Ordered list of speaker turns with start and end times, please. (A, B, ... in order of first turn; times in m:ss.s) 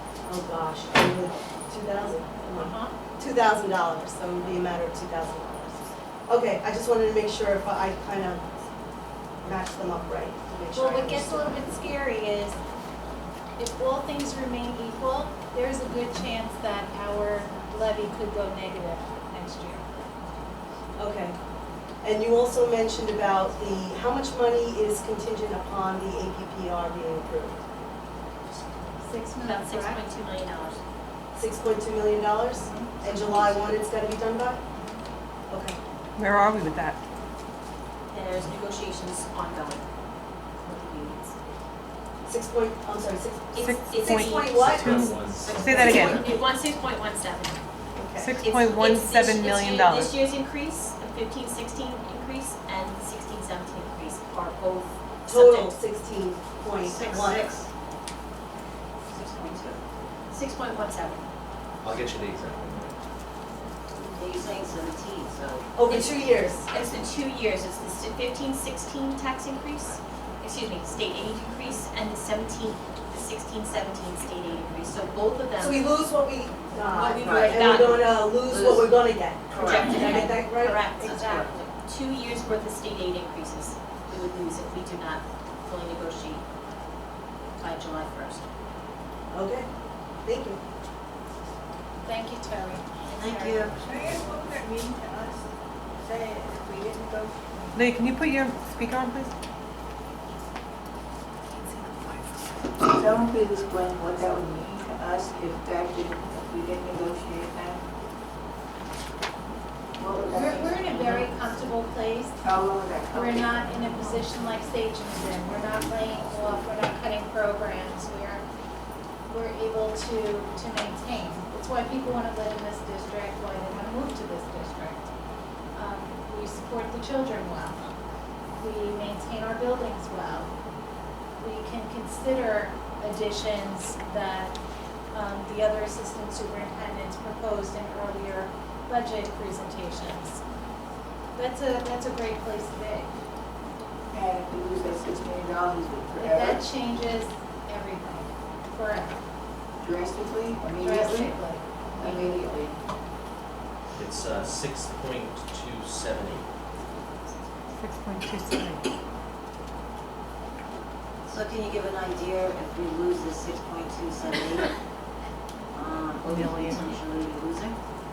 0:00.2-0:08.5 A
0:02.5-0:02.9 B
0:09.4-0:11.6 A
0:10.8-0:12.5 B
0:13.6-0:19.9 B
0:21.0-0:21.4 A
0:22.0-0:27.6 A
0:29.0-0:30.0 B
0:29.4-0:30.8 C
0:31.4-0:34.6 A
0:35.5-0:35.8 A
0:36.2-0:37.0 D
0:38.1-0:39.9 C
0:40.6-0:41.3 C
0:42.2-0:45.2 A
0:43.5-0:44.7 C
0:43.6-0:46.2 D
0:44.6-0:46.2 E
0:45.4-0:46.3 F
0:45.8-0:47.6 C
0:48.0-0:48.4 A
0:48.2-0:50.0 D
0:48.2-0:55.7 C
0:55.3-0:57.5 A
0:56.8-0:57.7 F
0:59.1-0:59.8 F
1:00.3-1:01.3 C
1:01.8-1:02.9 E
1:04.1-1:05.7 F
1:05.7-1:06.7 A
1:05.9-1:15.9 C
1:15.6-1:20.9 A
1:16.9-1:18.8 C
1:17.2-1:17.7 F
1:19.5-1:20.0 F
1:19.6-1:26.4 C
1:21.0-1:21.5 F
1:27.6-1:28.4 C
1:29.3-1:29.7 A
1:30.2-1:30.6 A
1:32.0-1:33.8 B
1:33.1-1:33.8 F
1:34.0-1:35.3 G
1:36.1-1:37.3 G
1:37.7-1:39.3 D
1:42.9-1:47.8 G
1:50.0-1:51.0 G
1:50.3-1:52.4 B
1:52.4-1:53.3 G
1:53.1-1:58.4 B
1:59.3-2:05.1 B
2:05.7-2:07.8 B
2:08.6-2:10.5 B
2:11.4-2:14.6 B
2:15.1-2:20.4 B
2:21.4-2:23.1 B
2:24.1-2:26.5 G
2:26.2-2:29.2 B
2:29.8-2:31.3 G
2:30.8-2:32.4 B
2:32.0-2:32.7 G
2:34.0-2:36.4 E
2:41.3-2:44.7 F
2:45.7-2:47.8 F